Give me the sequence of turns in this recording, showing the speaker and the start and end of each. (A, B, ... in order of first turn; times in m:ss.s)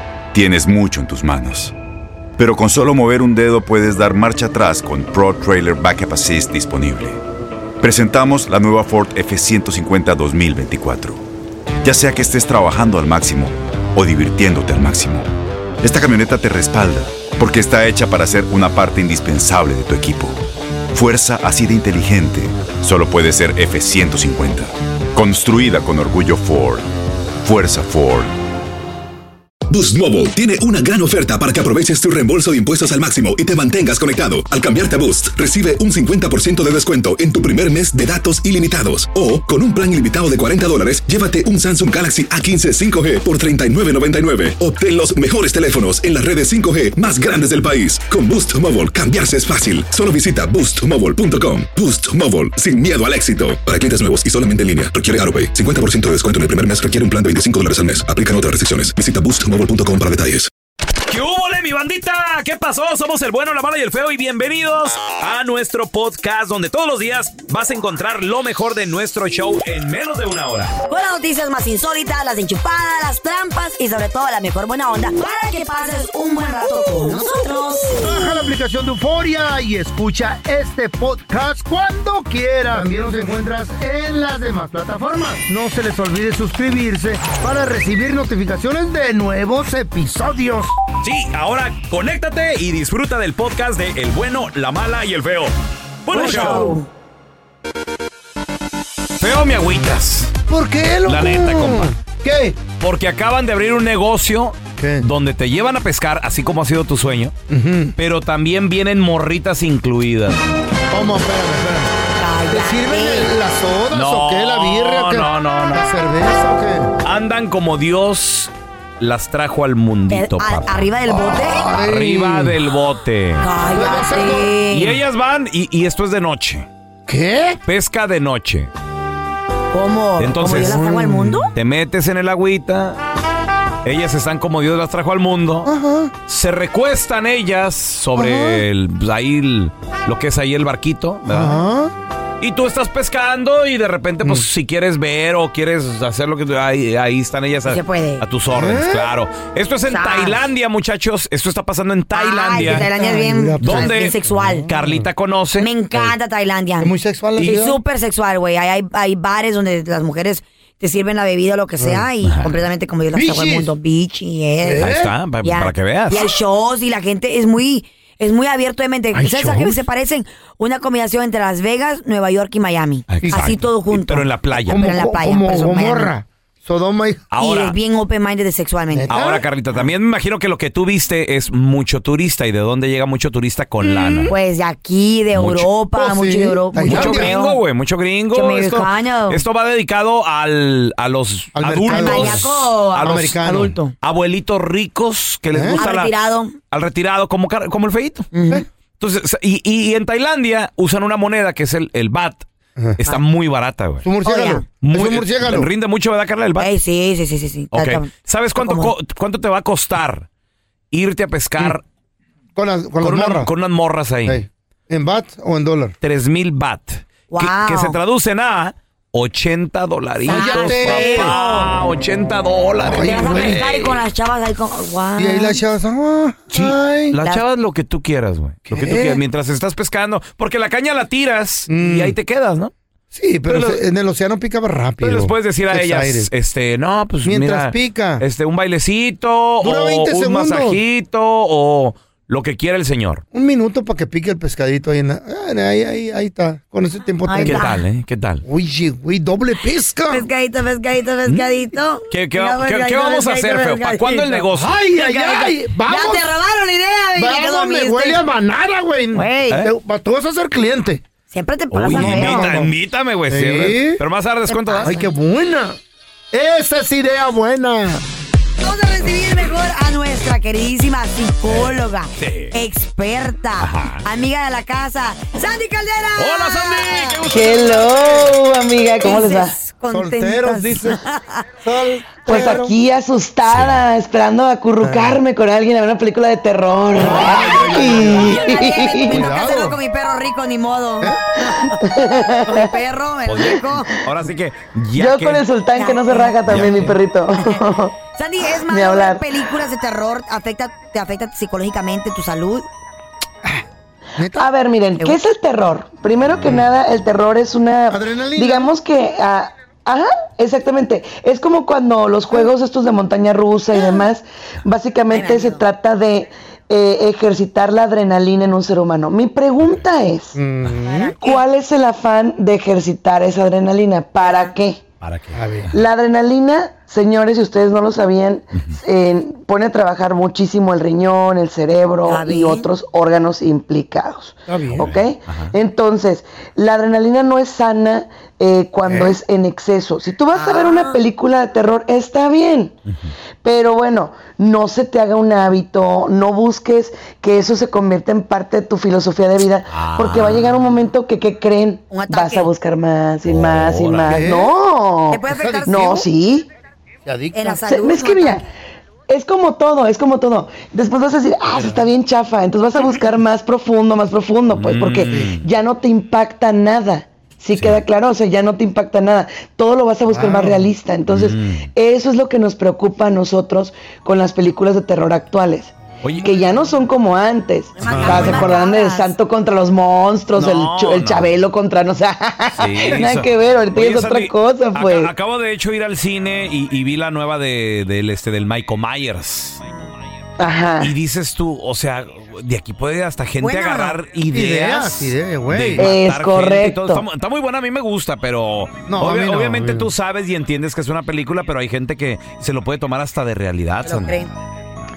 0:00.3-0:01.7 A
0:02.4-0:07.2 A
0:07.8-0:11.2 A
0:11.8-0:15.3 A
0:15.8-0:20.4 A
0:20.9-0:26.8 A
0:27.4-0:28.3 A
0:29.7-1:00.5 B
1:01.1-1:10.7 C
1:10.9-1:18.3 D
1:18.0-1:30.7 E
1:31.0-1:35.5 C
1:36.1-1:36.8 C
1:36.1-1:36.9 D
1:36.3-1:36.7 E
1:39.2-1:40.3 C
1:40.5-1:42.6 E
1:41.1-1:41.9 C
1:42.8-1:47.3 C
1:44.8-1:45.1 E
1:47.5-1:47.9 E
1:48.0-1:50.4 C
1:50.9-1:52.0 E
1:52.2-1:53.3 D
1:52.5-1:56.9 E
1:53.9-1:56.0 C
1:57.0-2:00.9 C
2:00.1-2:01.7 D
2:01.1-2:02.6 E
2:01.6-2:03.5 C
2:03.4-2:05.0 D
2:03.7-2:04.6 E
2:04.7-2:06.7 C
2:07.1-2:07.6 E
2:07.7-2:08.7 C
2:09.7-2:11.5 D
2:10.2-2:10.8 C
2:10.5-2:11.4 E
2:11.5-2:13.0 C
2:13.8-2:15.7 C
2:15.7-2:16.1 E
2:16.3-2:21.6 C
2:18.2-2:18.6 E
2:21.3-2:21.9 E
2:22.4-2:32.9 C
2:27.7-2:28.2 D
2:28.5-2:29.1 E
2:29.9-2:30.4 D
2:32.1-2:34.7 D
2:32.6-2:34.1 E
2:33.6-2:36.1 C
2:34.8-2:35.1 E
2:35.6-2:44.9 D
2:36.8-2:37.8 E
2:41.8-2:42.1 E
2:42.2-2:42.5 C
2:43.1-2:43.7 E
2:44.6-2:45.1 E
2:44.8-2:46.3 C
2:45.4-2:56.1 D
2:49.1-2:49.7 E
2:53.1-2:54.9 C
2:53.2-2:53.6 E
2:54.7-2:57.3 E
2:57.3-2:57.8 C
2:57.4-2:59.1 D
2:58.9-2:59.4 E
2:59.1-3:04.3 C
3:03.8-3:04.3 E
3:04.3-3:07.6 D
3:05.4-3:05.7 C
3:05.9-3:07.3 E
3:06.8-3:13.5 C
3:08.3-3:09.4 D
3:11.6-3:13.8 E
3:11.8-3:13.9 D
3:14.0-3:16.1 C
3:15.5-3:15.8 E
3:15.8-3:16.6 D
3:16.7-3:18.3 C
3:18.3-3:18.6 D
3:19.0-3:22.4 C
3:23.0-3:24.0 C
3:24.0-3:25.7 E
3:24.2-3:24.7 D
3:24.8-3:26.7 C
3:26.6-3:28.9 D
3:27.7-3:30.3 C
3:30.9-3:31.8 C
3:32.6-3:33.5 E
3:33.0-3:34.4 C
3:34.2-3:36.0 E
3:36.0-3:44.0 C
3:37.3-3:38.0 D
3:40.2-3:41.7 D
3:40.3-3:41.4 E
3:42.8-3:43.9 E
3:42.9-3:45.6 D
3:45.2-3:47.1 E
3:46.5-3:52.7 C
3:48.7-3:49.2 E
3:51.7-3:52.2 E
3:53.1-3:56.3 E
3:53.5-3:53.8 C
3:55.0-4:03.2 C
3:57.2-3:58.2 E
3:59.6-4:00.8 E
4:03.3-4:07.7 E
4:07.3-4:07.8 D
4:07.4-4:08.4 C
4:08.4-4:10.3 E
4:10.1-4:18.2 D
4:11.3-4:11.6 C
4:12.1-4:14.8 C
4:14.6-4:16.3 E
4:17.2-4:21.0 E
4:19.2-4:19.6 D
4:21.3-4:22.6 D
4:21.7-4:24.9 C
4:21.9-4:22.7 E
4:23.3-4:24.0 E
4:24.5-4:25.1 D
4:24.8-4:25.8 E
4:26.3-4:28.0 E
4:28.6-4:37.2 D
4:31.5-4:32.6 C
4:33.6-4:34.0 C
4:36.2-4:38.3 C
4:37.3-4:39.6 F
4:39.0-4:41.4 D
4:39.9-4:41.0 E
4:41.6-4:42.8 E
4:42.3-4:49.3 F
4:43.5-4:43.9 C
4:44.8-4:45.2 E
4:47.0-4:49.8 E
4:48.2-4:51.8 D
4:51.8-4:52.8 F
4:52.4-4:53.9 D
4:53.3-4:55.4 C
4:55.0-4:58.0 F
4:55.8-4:56.4 D
4:56.5-4:57.0 C
4:58.1-5:02.7 D
4:58.6-4:59.2 F
5:04.2-5:04.5 E
5:04.4-5:20.4 F
5:07.9-5:08.7 E
5:13.7-5:14.0 D
5:15.1-5:15.6 D
5:19.6-5:19.8 C
5:20.4-5:21.2 E
5:20.8-5:21.4 D
5:21.2-5:24.8 F
5:24.2-5:24.5 D
5:25.0-5:25.7 C
5:25.3-5:25.7 E
5:25.7-5:42.7 F
5:32.0-5:32.7 D
5:34.5-5:34.9 E
5:34.7-5:35.5 C
5:38.8-5:39.1 E
5:40.4-5:41.0 D
5:43.4-5:56.5 F
5:49.7-5:50.6 C
5:51.9-5:52.5 D
5:53.3-5:54.2 C
5:54.1-5:54.6 E
5:55.1-5:56.1 D
5:55.3-5:56.1 E
5:57.0-5:57.6 E
5:57.3-5:58.4 D
5:57.6-5:58.4 F
5:59.1-6:25.1 F
6:01.6-6:01.8 E
6:04.5-6:05.5 C
6:07.6-6:07.8 C
6:10.1-6:10.7 E
6:11.1-6:11.7 C
6:16.0-6:16.3 C
6:17.8-6:19.1 D
6:17.9-6:18.5 E
6:18.1-6:18.4 C
6:20.4-6:21.3 C
6:22.6-6:29.6 C
6:30.4-6:30.9 F
6:30.8-6:44.2 C
6:33.4-6:34.0 D
6:34.3-6:35.9 E
6:35.8-6:37.0 F
6:38.9-6:39.9 E
6:43.8-6:44.3 D